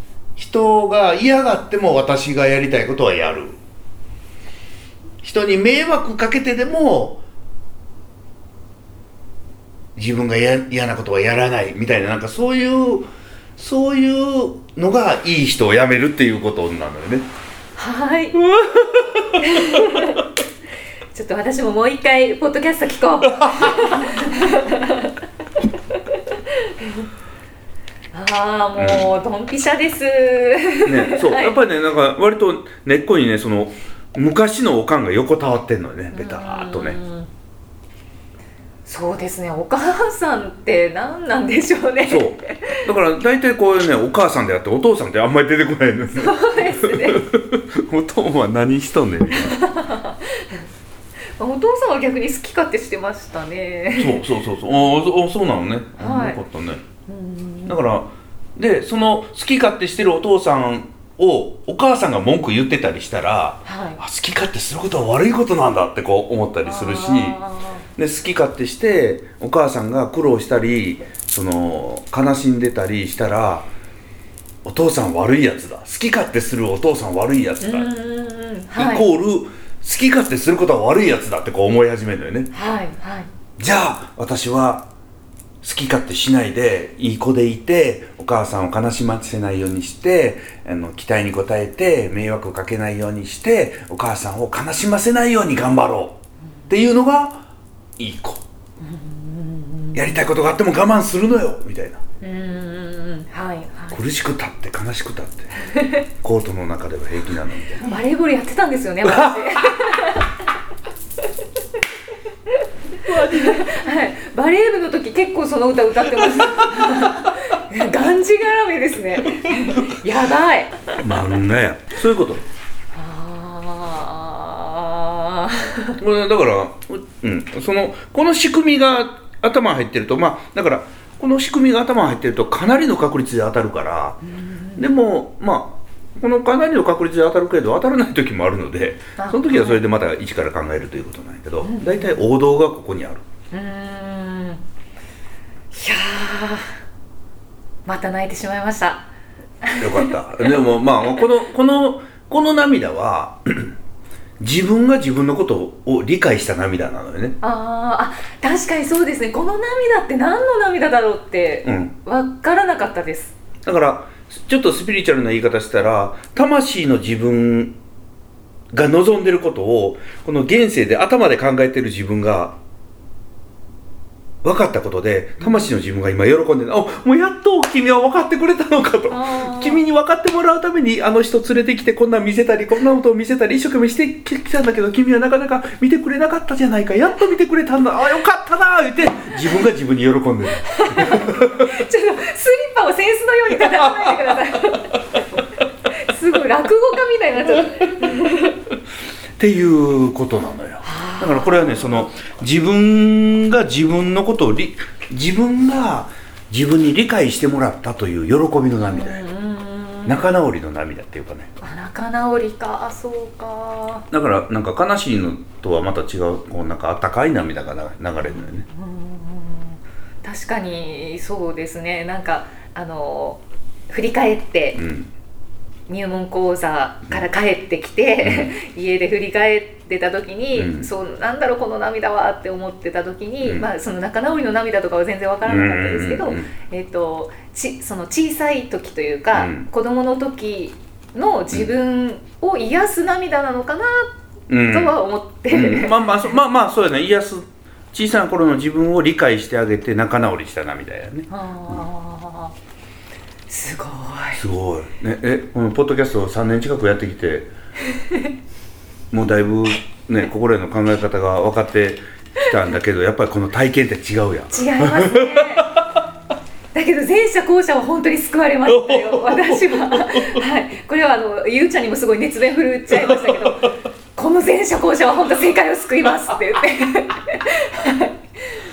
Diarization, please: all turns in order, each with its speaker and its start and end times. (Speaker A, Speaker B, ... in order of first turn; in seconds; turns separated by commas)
Speaker A: 0.4-3.6, Speaker A: 5.2-7.2, Speaker A: 10.0-17.3, Speaker B: 17.8-18.4, Speaker A: 18.4-20.1, Speaker B: 19.4-20.2, Speaker B: 21.1-25.1, Speaker A: 23.3-23.9, Speaker B: 26.3-27.1, Speaker B: 28.1-31.6, Speaker A: 28.8-29.1, Speaker A: 30.9-37.0, Speaker B: 36.1-37.3, Speaker B: 38.9-42.8, Speaker A: 42.1-49.6, Speaker B: 46.1-47.2, Speaker B: 49.5-50.6, Speaker B: 51.4-54.2, Speaker A: 54.0-56.8, Speaker B: 56.0-56.4, Speaker B: 57.1-57.8, Speaker A: 57.7-67.4, Speaker B: 63.6-64.0, Speaker B: 66.7-67.8, Speaker A: 68.0-73.7, Speaker A: 74.7-77.9, Speaker B: 77.6-79.1, Speaker A: 78.7-82.5, Speaker B: 82.5-83.3, Speaker A: 83.6-84.9, Speaker A: 85.6-97.5, Speaker A: 98.0-98.4, Speaker B: 98.8-100.1, Speaker A: 99.9-102.0, Speaker B: 102.2-104.0, Speaker A: 103.9-105.5, Speaker B: 105.6-106.0, Speaker A: 106.2-107.9, Speaker B: 107.8-110.3, Speaker A: 109.1-109.7, Speaker A: 113.0-113.8, Speaker B: 113.2-121.0, Speaker A: 116.3-117.1, Speaker A: 119.5-119.8, Speaker A: 121.0-122.4, Speaker B: 122.9-126.0, Speaker A: 126.0-134.2, Speaker B: 134.2-134.9, Speaker A: 134.8-143.2, Speaker B: 139.2-139.8, Speaker B: 141.6-142.2, Speaker B: 143.5-144.6, Speaker B: 145.7-146.8, Speaker B: 147.8-149.1, Speaker B: 149.6-150.1, Speaker A: 149.8-153.8, Speaker A: 154.4-157.4, Speaker B: 157.4-163.3, Speaker A: 161.6-161.9, Speaker A: 163.6-167.8, Speaker A: 168.7-172.6, Speaker A: 174.4-191.8, Speaker B: 179.1-179.8, Speaker B: 190.6-195.0, Speaker A: 193.6-194.4, Speaker B: 195.9-198.6, Speaker A: 199.4-209.2, Speaker B: 200.8-202.1, Speaker B: 208.9-210.2, Speaker A: 210.1-211.5, Speaker B: 211.6-214.1, Speaker A: 214.1-218.7, Speaker B: 218.2-224.8, Speaker A: 224.8-225.1, Speaker B: 225.9-244.2, Speaker A: 228.2-228.5, Speaker A: 230.6-230.9, Speaker A: 233.4-233.7, Speaker A: 235.5-236.5, Speaker A: 239.3-239.7, Speaker A: 244.5-251.8, Speaker B: 244.7-246.0, Speaker B: 251.3-252.5, Speaker B: 253.5-254.4, Speaker A: 254.3-257.5, Speaker B: 257.9-258.3, Speaker A: 259.1-266.0, Speaker B: 264.5-265.8, Speaker B: 266.7-278.1, Speaker A: 268.7-270.4, Speaker A: 272.9-273.7